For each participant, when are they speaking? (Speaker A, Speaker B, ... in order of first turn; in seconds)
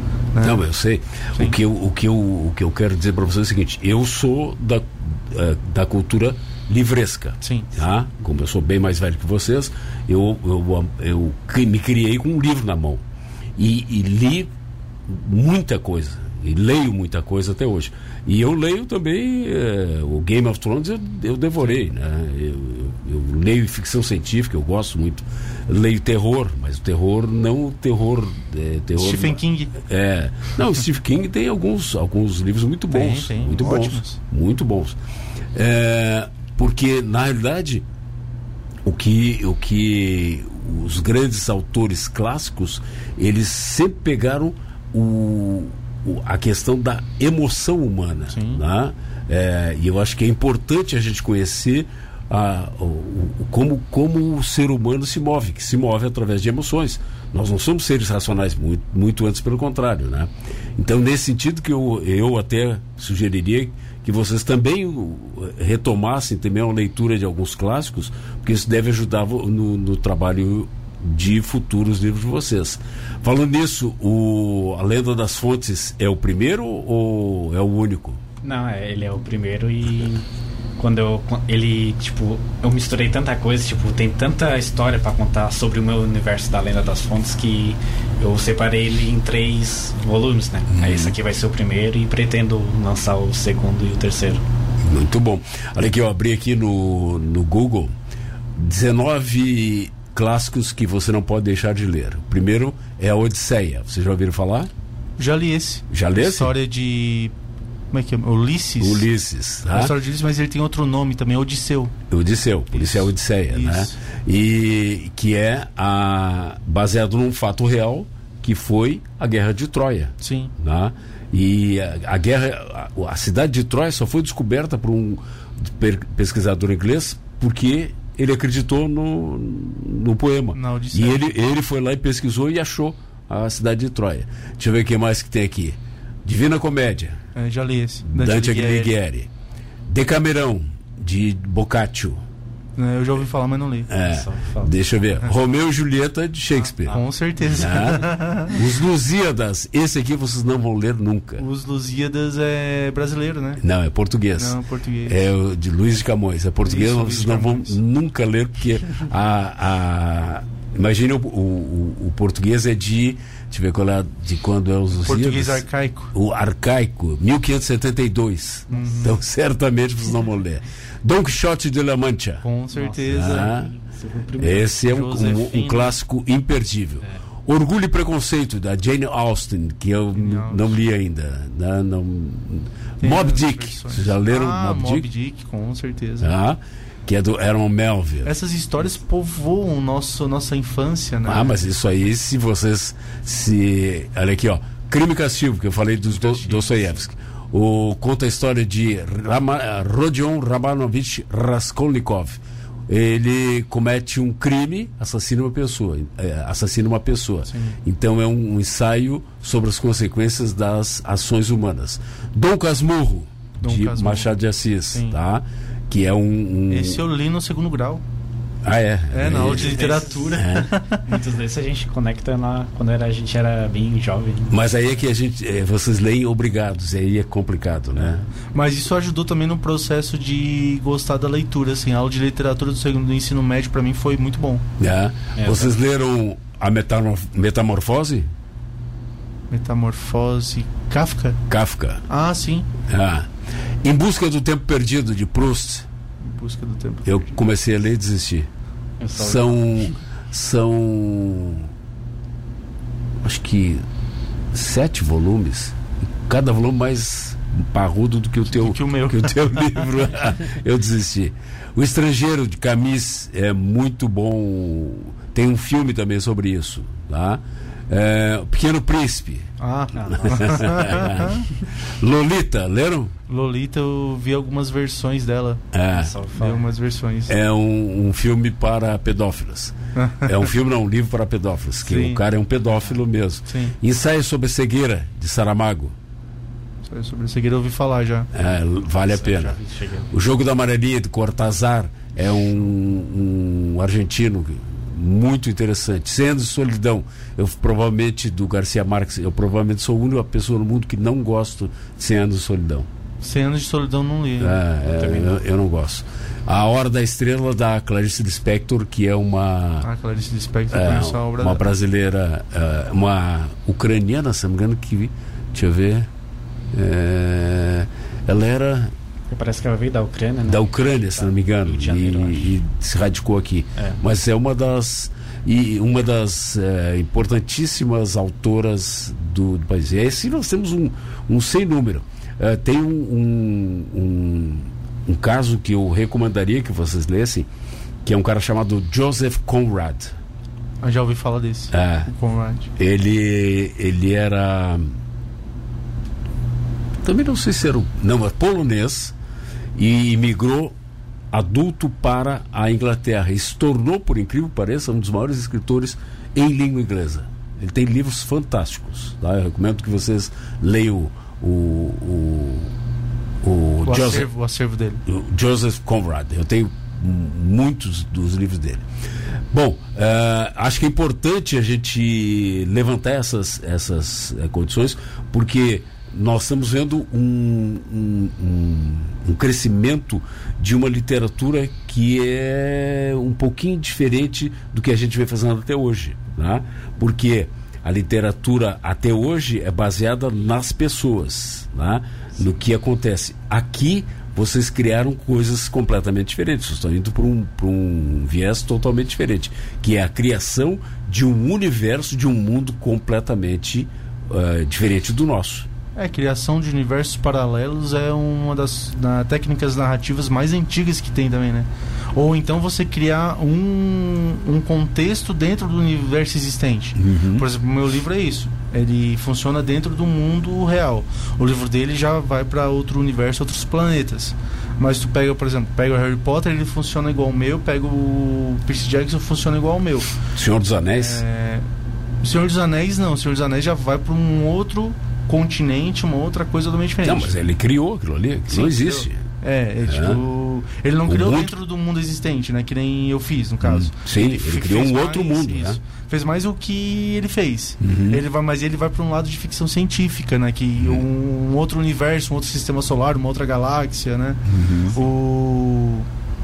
Speaker A: 0.3-0.6, 7.4-7.7, 29.0-29.7, 32.9-34.2, 48.3-48.6, 105.2-107.3, 107.9-109.0, 109.7-111.9, 112.7-113.9, 120.2-120.5, 130.5-131.3, 137.3-138.9, 142.8-143.9, 146.8-148.6, 151.4-153.6, 154.3-155.2, 156.6-157.8, 165.0-166.1, 168.7-169.2, 172.4-173.5, 174.7-175.9, 180.1-180.8, 183.0-186.3, 188.2-191.5, 196.1-196.9, 207.5-207.8, 213.6-214.3, 216.7-218.0, 219.1-221.1, 228.5-234.6, 239.5-241.4, 242.1-242.7, 246.2-247.2, 258.5-259.9, 269.6-271.4, 273.3-275.6, 276.3-277.3, 279.9-280.3, 281.8-282.2, 283.5-283.7, 286.8-288.3, 303.2-304.6, 309.8-311.6, 340.8-342.7, 363.8-365.0, 405.9-430.2, 430.9-431.6, 432.2-437.3, 438.5-454.4, 454.9-456.1
Speaker B: 0.4-13.0, 13.6-14.5, 15.1-35.0, 35.5-37.8, 38.8-78.2, 90.7-91.1, 94.8-97.9, 98.6-104.7, 105.9-106.5, 108.8-109.9, 112.1-137.2, 138.1-139.3, 139.9-142.2, 143.9-151.4, 153.6-172.4, 173.1-173.7, 174.4-185.1, 186.2-188.3, 191.2-217.0, 218.6-220.7, 224.5-228.2, 234.8-238.3, 241.5-242.0, 242.8-243.3, 243.8-245.8, 247.0-248.5, 249.2-251.7, 253.2-253.8, 254.5-269.5, 270.0-273.1, 275.7-276.1, 277.3-285.9, 288.3-289.6, 290.1-302.9, 304.4-309.9, 310.7-316.1, 316.7-318.9, 320.5-337.5, 338.0-340.1, 341.7-342.1, 342.8-344.9, 347.0-349.1, 349.8-350.7, 351.3-362.7, 363.4-364.3, 365.1-368.8, 369.5-405.7, 416.9-417.4, 430.3-431.2, 437.0-439.2, 439.8-440.2, 441.1-441.5, 443.6-445.8, 447.8-448.2, 454.5-454.9
Speaker C: 78.4-94.4, 144.0-144.7, 172.7-174.6, 219.4-220.5, 221.0-224.6, 235.4-235.7, 249.0-249.9, 269.9-271.1, 275.9-276.7, 289.1-290.1, 304.8-305.4, 319.3-322.5